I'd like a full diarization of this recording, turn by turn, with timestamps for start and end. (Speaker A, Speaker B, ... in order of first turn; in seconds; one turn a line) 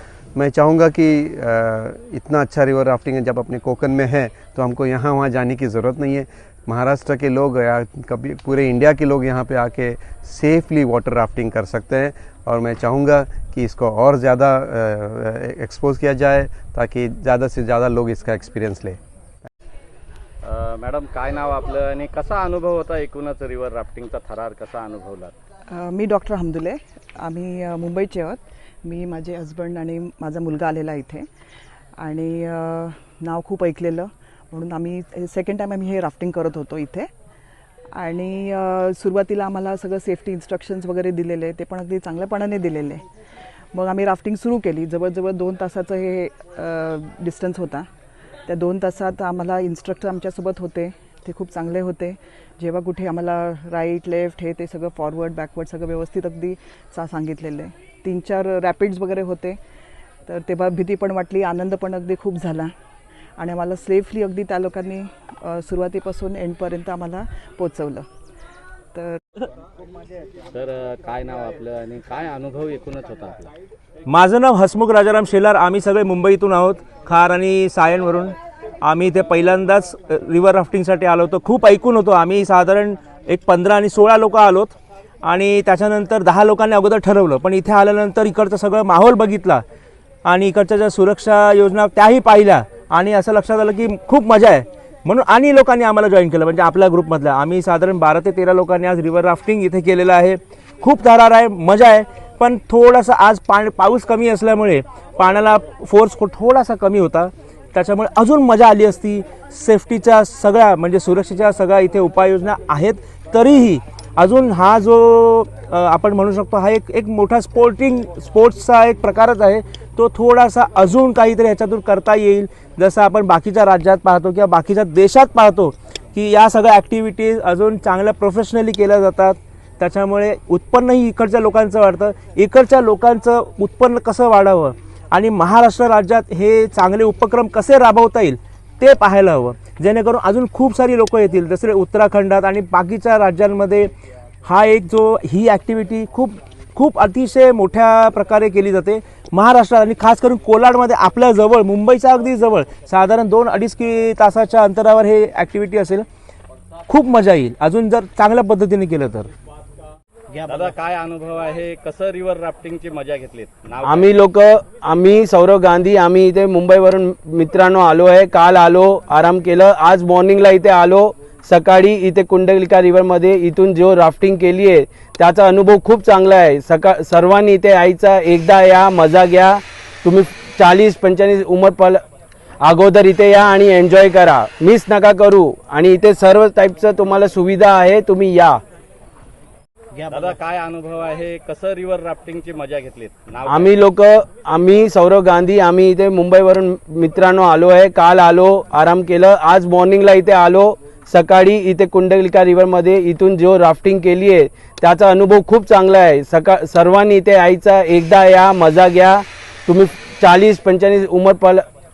Speaker A: 0.3-19.0
Speaker B: 20.4-25.3
Speaker C: 25.7-31.3
Speaker C: 32.0-37.1
Speaker C: 38.0-43.0
Speaker C: 43.7-47.9
Speaker C: 48.5-59.6
Speaker C: 60.3-62.7
Speaker C: 63.4-68.1
Speaker C: 68.9-69.2
Speaker B: 70.5-73.5
Speaker D: 74.1-89.6
Speaker D: 90.2-143.9
Speaker D: 144.4-156.1
Speaker D: 156.9-159.3
Speaker B: 160.3-164.2
Speaker E: 163.8-182.0
Speaker E: 182.6-188.6
Speaker B: 190.1-193.8
Speaker E: 193.5-211.6